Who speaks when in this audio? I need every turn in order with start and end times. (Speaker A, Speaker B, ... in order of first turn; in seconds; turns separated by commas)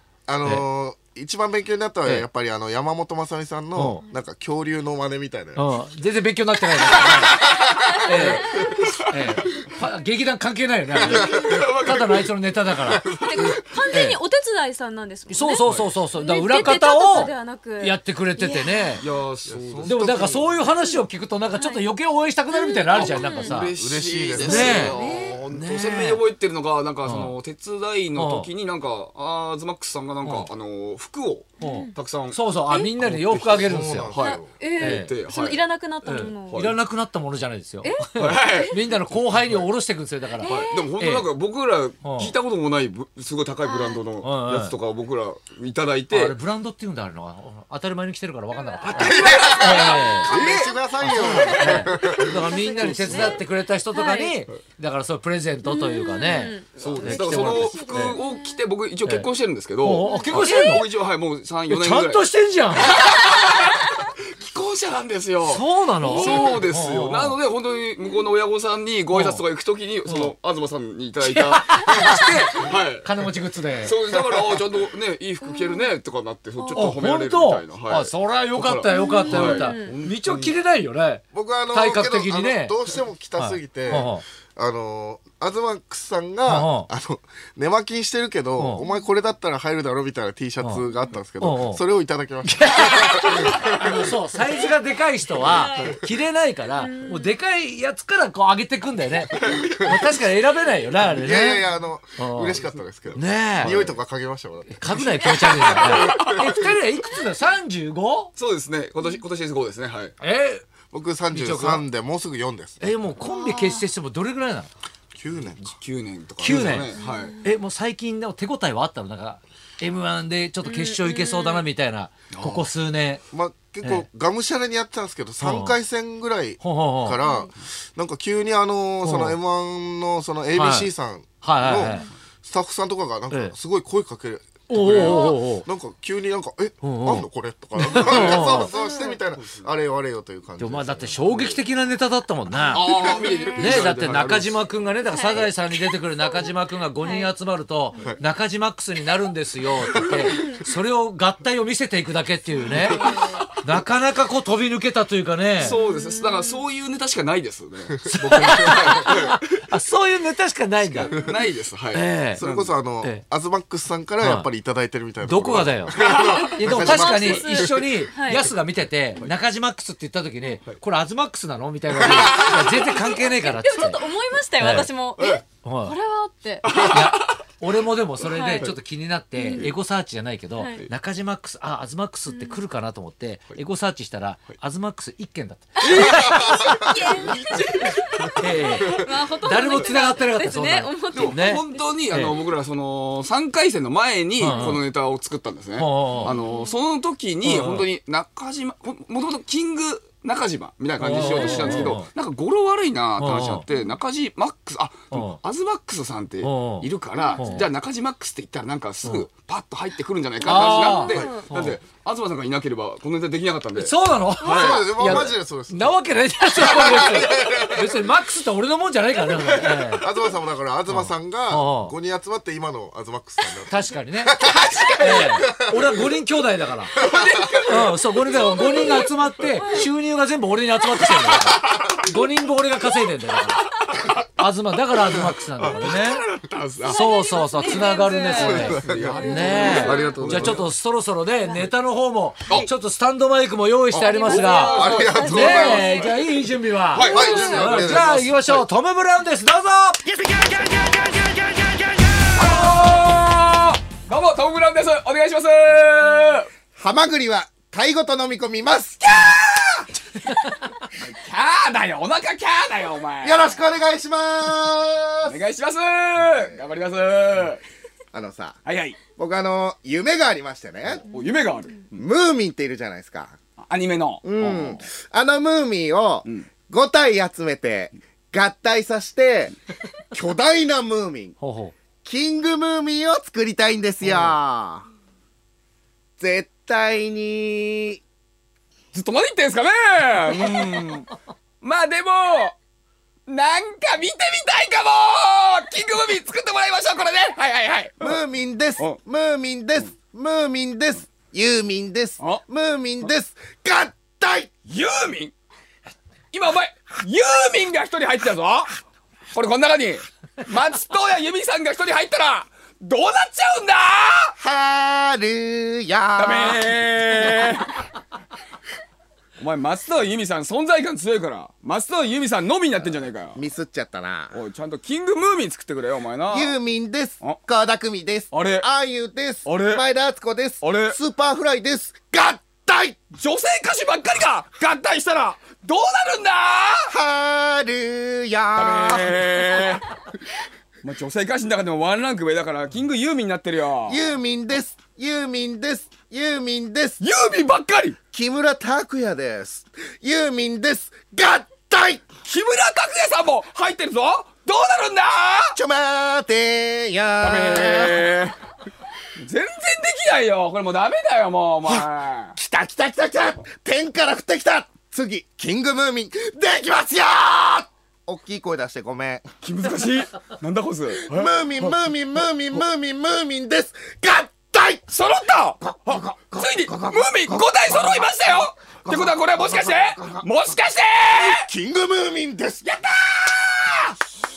Speaker A: 0.3-5.7, Speaker B: 3.8-4.0, Speaker B: 5.6-7.4, Speaker A: 6.9-8.9, Speaker C: 7.6-9.0, Speaker B: 8.0-13.1, Speaker A: 11.0-11.6, Speaker D: 11.3-12.4, Speaker D: 13.1-13.6, Speaker C: 13.2-19.0, Speaker B: 13.9-14.2, Speaker B: 15.3-19.0, Speaker D: 19.0-20.2, Speaker A: 19.5-20.6, Speaker B: 19.9-23.7, Speaker C: 20.7-21.0, Speaker C: 21.6-21.9, Speaker C: 22.5-23.7, Speaker D: 22.9-32.4, Speaker A: 23.8-25.3, Speaker B: 24.4-25.0, Speaker C: 24.5-25.5, Speaker B: 25.5-26.2, Speaker B: 27.1-27.4, Speaker B: 28.1-28.5, Speaker B: 30.2-30.5, Speaker C: 31.6-32.0, Speaker B: 31.6-34.2, Speaker A: 33.0-34.5, Speaker D: 33.1-33.4, Speaker D: 34.1-35.7, Speaker C: 34.2-36.7, Speaker B: 34.8-35.1, Speaker B: 36.0-41.3, Speaker D: 36.5-36.8, Speaker C: 37.8-38.8, Speaker D: 38.2-38.7, Speaker C: 40.4-40.8, Speaker D: 40.4-46.4, Speaker B: 42.0-42.3, Speaker C: 43.6-44.0, Speaker B: 44.2-44.7, Speaker B: 46.1-50.3, Speaker C: 48.5-54.3, Speaker D: 48.9-50.7, Speaker A: 48.9-52.4, Speaker B: 51.0-58.1, Speaker D: 52.8-53.0, Speaker C: 55.6-58.6, Speaker D: 56.8-73.1, Speaker B: 59.8-60.9, Speaker C: 60.0-60.9, Speaker B: 61.7-63.0, Speaker B: 65.4-67.4, Speaker C: 66.0-66.7, Speaker B: 69.1-69.4, Speaker B: 70.1-70.3, Speaker B: 71.2-74.0, Speaker D: 73.8-80.6, Speaker A: 74.3-74.6, Speaker C: 75.5-75.9, Speaker C: 76.6-76.9, Speaker B: 76.7-82.8, Speaker C: 78.9-80.0, Speaker A: 81.3-94.1, Speaker B: 83.4-84.2, Speaker B: 86.5-86.9, Speaker B: 88.6-88.8, Speaker C: 88.8-89.1, Speaker B: 91.4-91.8, Speaker B: 92.4-101.7, Speaker C: 95.4-96.0, Speaker C: 96.8-97.3, Speaker D: 99.3-99.7, Speaker A: 99.4-100.0, Speaker A: 101.1-106.7, Speaker B: 102.2-102.6, Speaker B: 103.1-103.8, Speaker D: 103.6-104.0, Speaker B: 104.7-108.3, Speaker C: 105.2-105.5, Speaker D: 105.4-106.3, Speaker D: 108.4-110.1, Speaker B: 110.2-110.6, Speaker A: 110.9-113.1, Speaker B: 111.3-111.9, Speaker B: 112.8-114.7, Speaker C: 113.2-113.8, Speaker A: 115.2-115.8, Speaker D: 115.6-117.4, Speaker B: 116.4-123.2, Speaker A: 116.4-116.8, Speaker C: 116.9-117.5, Speaker C: 120.6-121.7, Speaker D: 122.3-122.7, Speaker A: 123.3-141.5, Speaker B: 125.4-125.8, Speaker B: 126.6-127.2, Speaker C: 127.2-127.5, Speaker B: 129.0-129.4, Speaker B: 130.5-130.9, Speaker B: 131.4-132.1, Speaker B: 134.7-135.7, Speaker D: 134.8-135.2, Speaker C: 135.0-135.4, Speaker B: 136.8-138.7, Speaker D: 138.0-138.6, Speaker C: 138.6-139.2, Speaker D: 139.3-139.7, Speaker B: 140.6-142.9, Speaker D: 142.7-144.6, Speaker C: 142.7-143.8, Speaker B: 143.6-155.8, Speaker C: 145.1-147.3, Speaker C: 150.2-150.6, Speaker C: 152.6-153.5, Speaker D: 152.8-153.5, Speaker D: 155.6-159.6, Speaker C: 155.7-156.6, Speaker B: 158.1-161.2, Speaker A: 158.6-159.1, Speaker A: 160.9-161.3, Speaker D: 161.1-162.8, Speaker B: 161.9-162.4, Speaker A: 162.3-167.9, Speaker B: 164.2-164.5, Speaker B: 165.2-166.0, Speaker C: 166.0-168.5, Speaker B: 166.6-174.0, Speaker A: 172.0-172.3, Speaker C: 172.1-176.7, Speaker D: 172.3-172.9, Speaker B: 174.6-174.9, Speaker B: 175.6-175.9, Speaker D: 176.6-177.4, Speaker B: 176.8-186.6, Speaker C: 178.2-178.7, Speaker C: 179.4-179.7, Speaker C: 180.6-180.9, Speaker C: 182.3-182.6, Speaker C: 185.8-191.8, Speaker D: 185.8-188.5, Speaker A: 186.3-186.8, Speaker B: 188.4-192.4, Speaker D: 191.1-215.3, Speaker B: 194.4-194.8, Speaker B: 195.8-196.3, Speaker C: 196.2-196.8, Speaker B: 197.4-197.9, Speaker B: 201.0-202.1, Speaker C: 201.2-201.9, Speaker B: 203.2-203.6, Speaker C: 203.7-204.0, Speaker B: 205.1-205.4, Speaker B: 206.4-207.7, Speaker C: 207.2-207.7, Speaker B: 210.4-211.8, Speaker C: 210.5-211.5, Speaker B: 213.8-220.0, Speaker A: 214.4-218.1, Speaker A: 219.4-225.8, Speaker B: 220.9-221.9, Speaker B: 223.7-224.3, Speaker D: 224.4-225.4, Speaker B: 225.0-226.9, Speaker D: 227.0-228.9, Speaker A: 227.0-227.6, Speaker B: 227.7-236.2, Speaker C: 228.6-229.1, Speaker C: 229.6-229.9, Speaker D: 235.1-237.0, Speaker C: 236.9-240.5, Speaker B: 236.9-250.0, Speaker A: 238.4-239.2, Speaker D: 238.7-240.7, Speaker D: 243.9-246.1, Speaker C: 244.0-246.2, Speaker A: 244.7-246.1, Speaker D: 246.9-248.2, Speaker C: 247.0-247.7, Speaker A: 247.1-248.6, Speaker D: 252.3-256.5, Speaker A: 256.8-257.6, Speaker E: 257.1-259.8, Speaker D: 261.0-263.7, Speaker A: 263.2-265.4, Speaker D: 265.2-267.6, Speaker E: 268.1-268.5, Speaker D: 268.6-269.0, Speaker E: 269.2-271.1, Speaker D: 271.0-271.9, Speaker E: 271.9-273.3, Speaker D: 273.6-274.8, Speaker E: 274.2-279.5, Speaker E: 280.1-281.3, Speaker B: 281.4-281.8, Speaker E: 282.1-284.8, Speaker D: 284.0-284.3, Speaker E: 286.2-288.0, Speaker D: 288.9-291.1, Speaker D: 291.6-292.6, Speaker D: 293.3-298.2, Speaker E: 298.0-304.5, Speaker D: 304.7-305.3, Speaker D: 306.3-308.8, Speaker D: 309.3-314.4, Speaker E: 314.4-316.6, Speaker D: 316.1-317.8, Speaker D: 319.4-323.4, Speaker E: 323.4-324.4, Speaker D: 324.3-326.6, Speaker E: 326.3-333.0, Speaker D: 328.3-328.7, Speaker D: 329.4-329.8, Speaker D: 330.6-331.0, Speaker D: 333.2-336.9, Speaker E: 336.9-339.1, Speaker D: 338.6-339.9, Speaker D: 340.8-344.0, Speaker E: 343.9-347.0, Speaker D: 347.0-348.0, Speaker E: 348.1-352.0, Speaker D: 352.2-355.6, Speaker E: 355.6-358.0, Speaker D: 357.2-358.4, Speaker D: 359.2-362.4, Speaker E: 362.4-369.2, Speaker D: 369.4-371.8, Speaker E: 371.1-374.9, Speaker D: 374.9-381.5, Speaker E: 375.9-377.4, Speaker E: 381.3-382.6, Speaker D: 382.6-384.0